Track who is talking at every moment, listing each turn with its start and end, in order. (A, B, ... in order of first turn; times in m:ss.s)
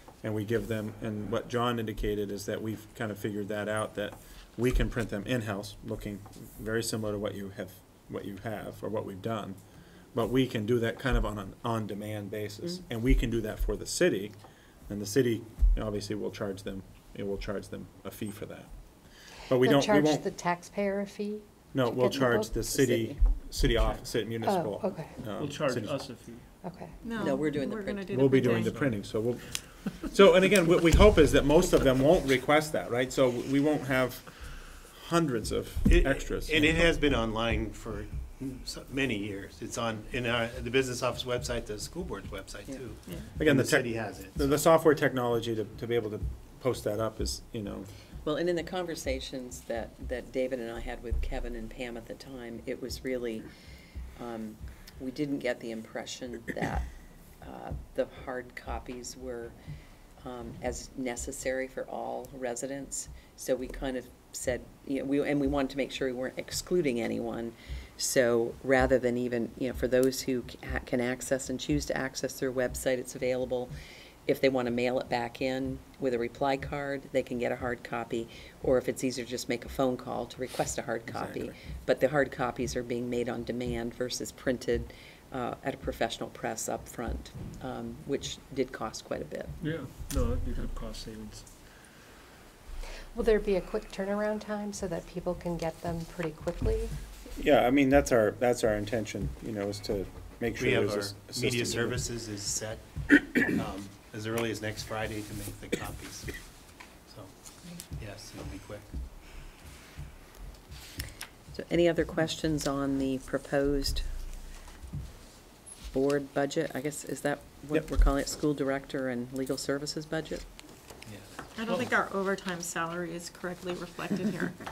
0:00.2-0:09.6 A
0:10.1-0:14.4 A
0:14.9-0:18.7 A
0:19.5-0:20.3 A
0:19.6-0:22.6 B
0:21.7-0:26.3 A
0:22.2-0:23.2 C
0:23.8-0:24.1 D
0:24.4-0:25.2 B
0:25.4-0:26.5 D
0:26.6-0:27.0 B
0:27.0-0:28.7 E
0:27.1-0:28.5 C
0:28.1-0:36.9 A
0:28.6-0:29.2 D
0:35.9-0:44.6 F
0:43.1-0:43.3 E
0:43.4-0:47.9 A
0:48.2-0:53.5 C
0:54.2-0:56.9 C
0:57.4-0:59.6 C
1:00.2-1:13.7 C
1:14.3-1:29.6 C
1:21.1-1:21.6 A
1:29.6-1:31.5 D
1:33.1-1:36.9 B
1:37.4-1:42.0 A
1:40.6-1:46.3 F
1:47.1-1:47.3 F
1:47.9-1:48.9 F
1:51.5-1:54.0 C
1:55.9-2:00.4 C
2:01.1-2:01.4 F
2:01.6-2:04.6 E
2:01.7-2:01.9 D